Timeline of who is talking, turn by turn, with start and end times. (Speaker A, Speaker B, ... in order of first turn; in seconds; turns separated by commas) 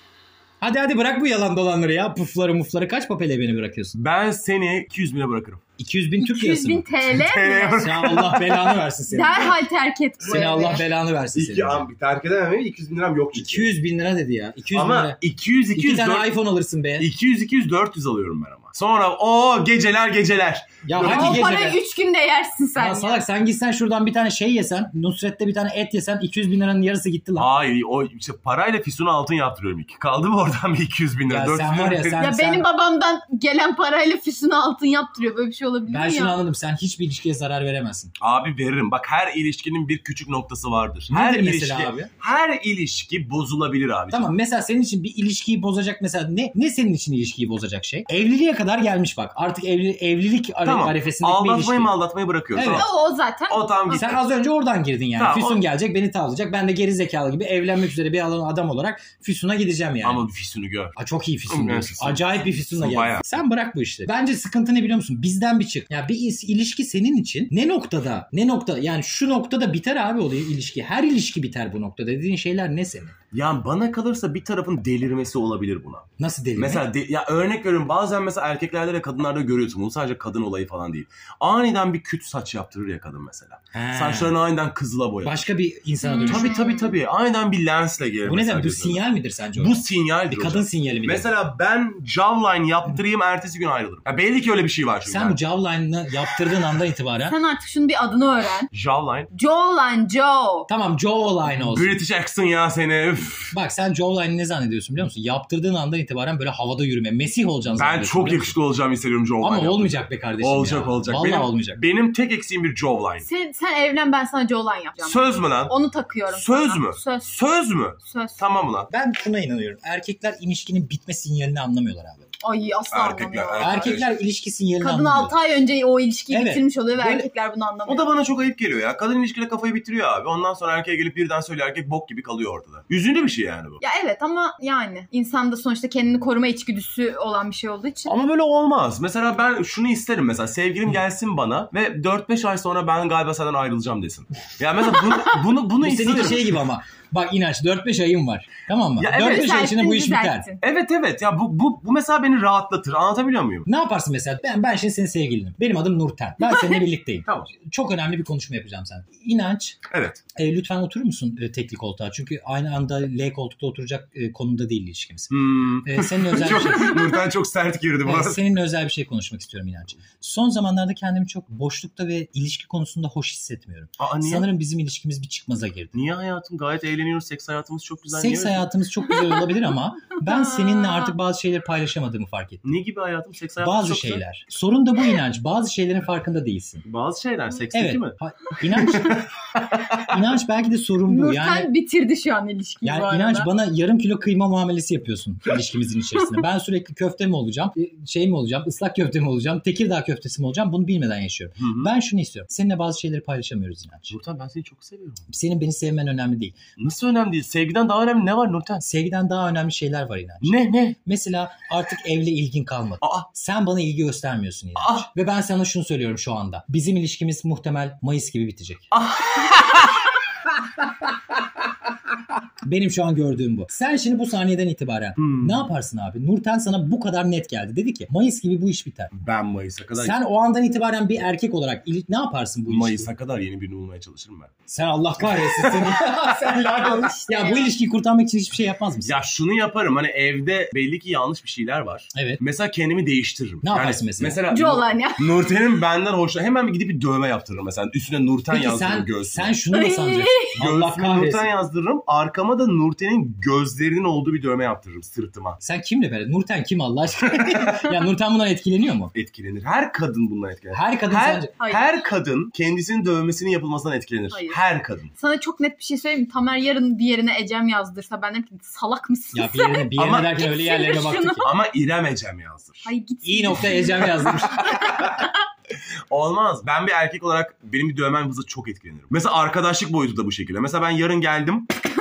Speaker A: 0.6-3.9, Speaker B: 3.9-5.6, Speaker A: 5.8-7.0, Speaker C: 6.2-7.9, Speaker B: 7.1-8.8, Speaker A: 7.7-9.6, Speaker C: 9.1-10.8, Speaker A: 10.2-11.9, Speaker B: 11.3-13.7, Speaker A: 13.3-15.2, Speaker B: 14.7-16.4, Speaker A: 15.7-17.1, Speaker B: 17.0-21.5, Speaker A: 20.9-21.8, Speaker C: 21.0-23.2, Speaker A: 22.8-27.5, Speaker B: 27.4-32.2, Speaker A: 31.3-32.6, Speaker C: 32.2-36.4, Speaker A: 35.9-38.1, Speaker B: 38.2-44.3, Speaker A: 41.1-42.1, Speaker A: 44.1-51.9, Speaker B: 50.6-52.9, Speaker A: 52.5-52.9, Speaker C: 52.6-54.2, Speaker B: 53.5-54.2, Speaker A: 53.9-60.2, Speaker B: 55.2-55.6, Speaker B: 60.0-61.0, Speaker A: 61.0-73.2, Speaker B: 61.5-63.2, Speaker B: 73.3-85.4, Speaker A: 76.2-76.9, Speaker A: 83.7-84.3, Speaker A: 85.2-86.6, Speaker C: 86.0-86.9, Speaker B: 86.3-89.0, Speaker A: 88.2-91.3, Speaker B: 89.5-95.4, Speaker A: 95.1-97.3, Speaker C: 97.2-98.7, Speaker B: 98.7-99.3, Speaker C: 99.3-100.7, Speaker A: 100.7-101.9, Speaker B: 101.5-103.5, Speaker A: 103.5-108.5, Speaker B: 107.7-113.3, Speaker A: 109.4-111.8, Speaker C: 113.2-117.3, Speaker B: 115.0-115.7, Speaker B: 116.3-118.9, Speaker C: 118.0-118.5, Speaker A: 118.9-122.3, Speaker C: 122.4-124.0, Speaker B: 122.9-124.1, Speaker A: 123.6-125.3, Speaker C: 124.8-128.2, Speaker A: 126.3-127.3, Speaker B: 127.9-133.8, Speaker C: 133.8-138.1, Speaker B: 138.1-146.6, Speaker A: 145.8-150.4, Speaker B: 149.0-149.6, Speaker C: 149.1-150.6, Speaker B: 150.6-153.7, Speaker A: 153.7-159.8, Speaker C: 156.4-156.8, Speaker B: 157.3-157.5, Speaker B: 159.9-160.2, Speaker A: 160.3-167.2, Speaker B: 165.3-168.4, Speaker A: 168.0-175.9, Speaker B: 174.0-174.5, Speaker B: 175.9-178.7, Speaker A: 178.1-182.6, Speaker C: 180.3-181.1, Speaker B: 182.6-184.2, Speaker A: 183.6-186.8, Speaker B: 186.8-188.2, Speaker A: 187.7-189.2, Speaker B: 188.7-190.1, Speaker A: 189.9-191.7, Speaker C: 191.1-193.5, Speaker A: 192.8-204.1, Speaker B: 201.6-201.9, Speaker B: 204.1-205.2, Speaker A: 205.3-206.6, Speaker B: 206.8-208.8, Speaker A: 208.8-218.9, Speaker B: 210.4-211.0, Speaker B: 213.0-213.3, Speaker B: 214.8-215.1, Speaker B: 218.9-220.1, Speaker A: 222.6-229.1, Speaker B: 225.2-225.6, Speaker B: 229.1-230.2, Speaker A: 230.0-233.1, Speaker B: 232.7-234.5, Speaker A: 234.7-239.1, Speaker B: 235.2-237.1, Speaker C: 236.7-237.7, Speaker B: 239.0-249.5, Speaker A: 242.1-242.4, Speaker A: 243.6-244.4, Speaker C: 244.5-245.4, Speaker A: 248.5-251.5, Speaker C: 249.7-250.5, Speaker B: 250.6-255.6, Speaker A: 255.6-259.1, Speaker B: 257.3-257.9, Speaker B: 259.1-265.1, Speaker A: 260.7-261.5, Speaker C: 261.6-262.0, Speaker C: 264.3-264.6, Speaker C: 265.1-271.5, Speaker A: 269.3-271.5, Speaker B: 270.0-270.3, Speaker B: 271.4-272.9, Speaker C: 272.8-275.3, Speaker A: 273.2-274.9, Speaker B: 274.0-275.2, Speaker B: 276.1-281.7